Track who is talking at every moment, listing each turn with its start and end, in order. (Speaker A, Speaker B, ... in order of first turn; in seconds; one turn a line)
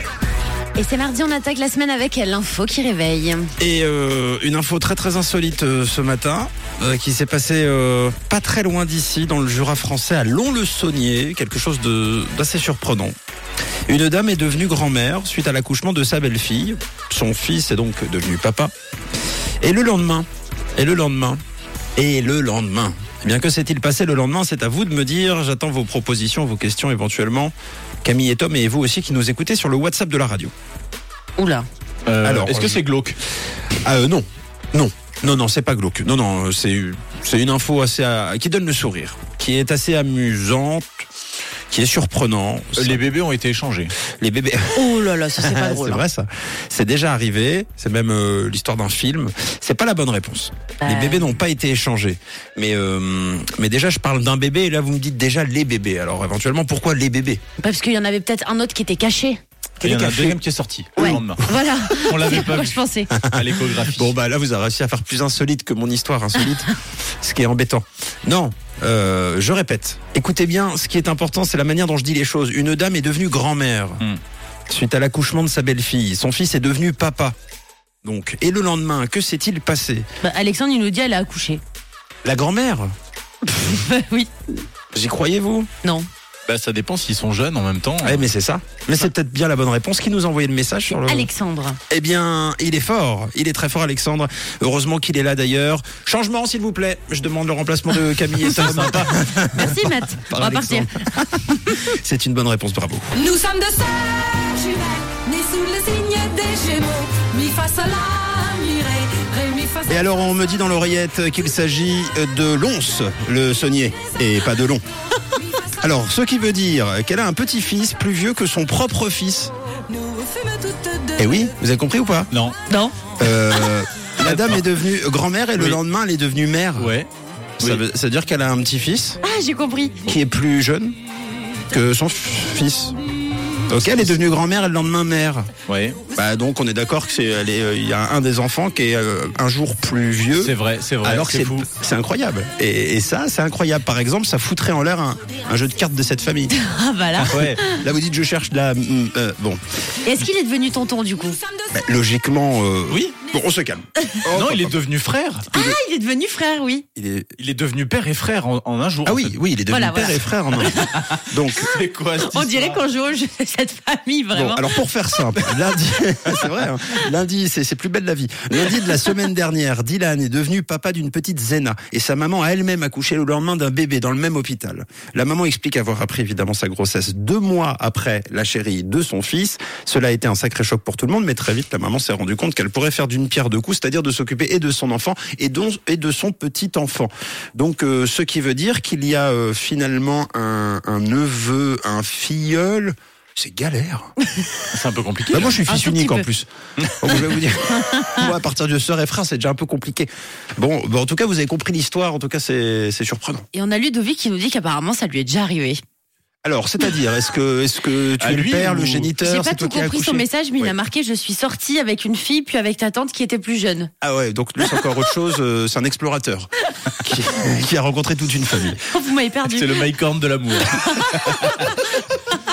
Speaker A: 0.8-3.5
Speaker B: 3.6-13.2
Speaker B: 13.9-18.7
Speaker B: 19.6-21.4
Speaker B: 22.0-30.5
Speaker A: 31.4-31.7
Speaker C: 32.1-33.2
Speaker B: 32.2-32.8
Speaker B: 33.8-41.0
Speaker B: 41.7-43.0
Speaker C: 42.8-44.0
Speaker B: 44.0-57.4
Speaker A: 44.7-46.0
Speaker A: 50.8-51.2
Speaker A: 57.6-59.4
Speaker B: 59.8-60.4
Speaker C: 59.8-61.4
Speaker B: 61.0-61.2
Speaker A: 61.0-63.1
Speaker C: 62.0-64.1
Speaker B: 63.1-74.0
Speaker B: 74.7-77.3
Speaker B: 78.0-80.1
Speaker A: 80.2-81.6
Speaker B: 82.2-82.9
Speaker A: 83.4-84.3
Speaker B: 84.9-85.7
Speaker C: 86.5-88.3
Speaker B: 88.0-91.3
Speaker A: 90.9-91.8
Speaker B: 91.9-103.3
Speaker C: 98.4-99.2
Speaker A: 99.5-100.9
Speaker D: 103.3-109.9
Speaker B: 109.9-114.8
Speaker B: 115.7-119.5
Speaker D: 120.2-121.1
Speaker B: 121.2-122.3
Speaker C: 122.3-122.6
Speaker A: 122.7-123.0
Speaker B: 123.2-127.0
Speaker C: 124.2-124.7
Speaker C: 126.8-127.1
Speaker B: 127.6-129.2
Speaker A: 129.2-130.1
Speaker B: 130.1-131.0
Speaker B: 131.7-132.9
Speaker B: 133.7-135.5
Speaker C: 133.8-134.1
Speaker C: 135.7-136.0
Speaker B: 136.1-146.6
Speaker C: 140.4-141.7
Speaker A: 146.5-147.8
Speaker C: 147.2-147.6
Speaker B: 147.5-149.6
Speaker A: 150.0-151.4
Speaker B: 151.7-154.7
Speaker C: 152.9-153.2
Speaker C: 154.3-155.5
Speaker B: 155.5-155.8
Speaker A: 155.5-156.8
Speaker B: 157.0-157.3
Speaker C: 157.4-159.3
Speaker B: 159.1-161.7
Speaker A: 159.7-160.9
Speaker C: 160.8-162.8
Speaker A: 162.2-164.8
Speaker B: 164.3-194.1
Speaker C: 194.7-195.6
Speaker B: 195.3-203.5
Speaker A: 195.7-196.3
Speaker A: 197.9-198.3
Speaker A: 203.5-205.8
Speaker B: 206.4-210.8
Speaker C: 208.2-209.1
Speaker A: 209.2-213.9
Speaker B: 214.0-218.9
Speaker A: 218.8-219.9
Speaker C: 219.4-221.7
Speaker A: 220.8-221.4